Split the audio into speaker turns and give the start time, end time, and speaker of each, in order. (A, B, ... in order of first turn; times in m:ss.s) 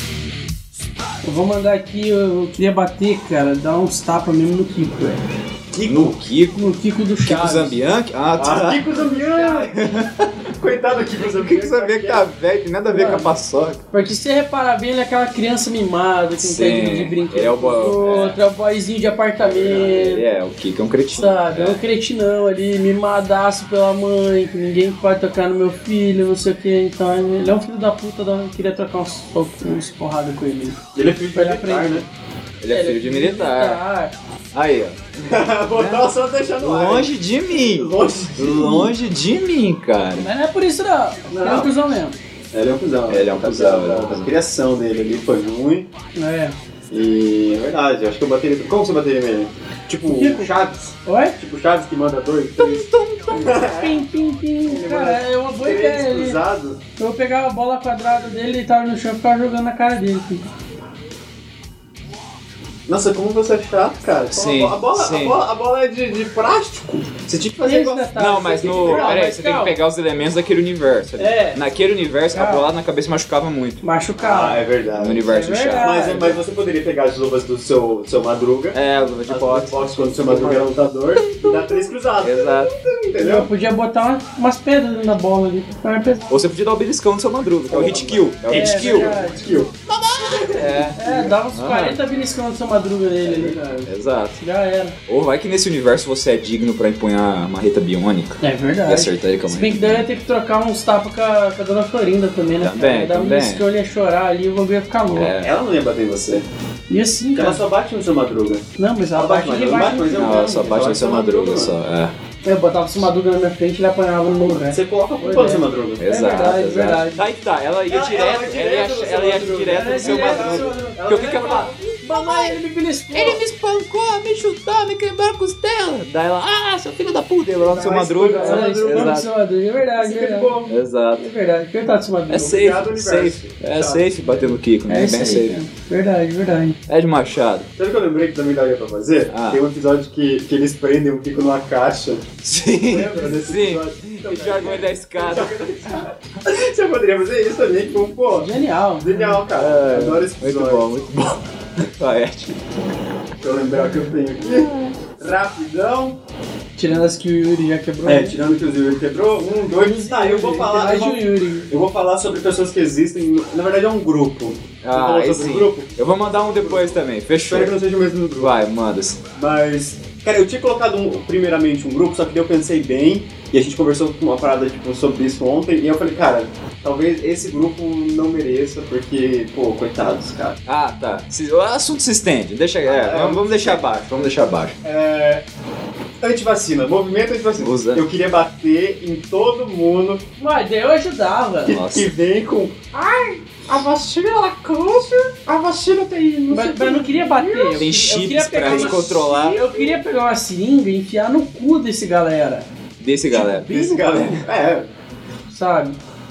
0:01.2-0:05.2 A
0:05.7-0:06.2 B
0:05.8-0:06.6 C
0:06.5-0:07.8 A
0:07.2-0:10.3 C
0:08.4-0:09.8 B
0:10.6-0:12.2 B
0:11.2-0:13.8 C
0:12.9-0:13.3 A
0:13.9-0:20.4 A
0:16.4-0:18.4 C
0:19.4-0:20.1 B
0:19.8-0:21.8 C
0:21.1-0:30.8 A
0:30.9-0:32.1 B
0:31.3-0:32.1 A
0:32.6-0:33.8 C
0:32.7-0:34.1 A
0:34.5-0:35.1 C
0:35.2-0:38.9 B
0:35.7-0:36.1 C
0:36.6-0:40.3 C
0:40.2-0:42.2 A
0:41.3-0:41.7 B
0:42.5-0:45.9 B
0:43.1-0:44.3 C
0:46.2-0:46.6 A
0:46.9-0:54.0 B
0:50.1-0:50.5 A
0:51.0-0:51.4 A
0:52.6-0:53.5 C
0:53.7-0:56.4 A
0:54.6-0:56.8 B
0:57.0-1:00.5 A
1:02.8-1:09.2 B
1:04.3-1:05.4 C
1:07.6-1:09.8 A
1:08.2-1:13.8 C
1:11.2-1:11.6 A
1:12.3-1:12.7 A
1:13.8-1:14.6 A
1:14.2-1:23.5 B
1:14.9-1:16.1 C
1:15.2-1:16.4 A
1:18.7-1:22.7 C
1:23.2-1:26.3 A
1:26.3-1:29.2 C
1:27.7-1:31.4 B
1:28.5-1:29.4 A
1:29.9-1:32.0 C
1:30.9-1:33.6 A
1:33.2-1:33.9 B
1:33.8-1:34.4 C
1:34.4-1:35.0 A
1:35.1-1:40.1 C
1:38.4-1:45.3 A
1:42.6-1:43.6 C
1:45.1-1:45.5 C
1:45.4-1:46.4 B
1:46.9-1:47.6 A
1:47.4-1:51.7 B
1:48.8-1:50.6 A
1:50.1-1:52.1 C
1:52.4-1:57.2 A
1:54.4-1:56.0 B
1:56.0-2:02.6 C
1:57.9-2:02.0 B
1:59.7-2:03.4 A
2:03.1-2:09.3 C
2:07.6-2:09.2 B
2:08.4-2:10.6 A
2:10.0-2:10.7 B
2:10.7-2:11.3 C
2:11.2-2:12.6 A
2:12.3-2:15.6 C
2:12.3-2:14.5 B
2:14.9-2:16.8 A
2:16.9-2:17.7 C
2:17.8-2:30.9 B
2:19.3-2:19.6 C
2:22.4-2:25.7 C
2:28.3-2:29.4 A
2:29.5-2:32.6 C
2:33.4-2:36.2 B
2:34.4-2:34.9 C
2:36.8-2:38.4 A
2:38.0-2:48.6 B
2:39.8-2:41.7 A
2:44.8-2:47.8 C
2:48.4-2:49.2 C
2:49.4-3:00.6 B
3:00.6-3:04.8 C
3:02.8-3:03.8 B
3:04.8-3:05.4 B
3:06.2-3:10.2 B
3:07.6-3:08.0 C
3:10.4-3:11.8 A
3:11.7-3:17.9 B
3:11.7-3:12.1 C
3:16.5-3:22.7 A
3:17.8-3:19.6 C
3:18.6-3:20.0 B
3:23.0-3:23.7 C
3:23.3-3:24.4 A
3:23.3-3:24.9 B
3:25.5-3:26.0 A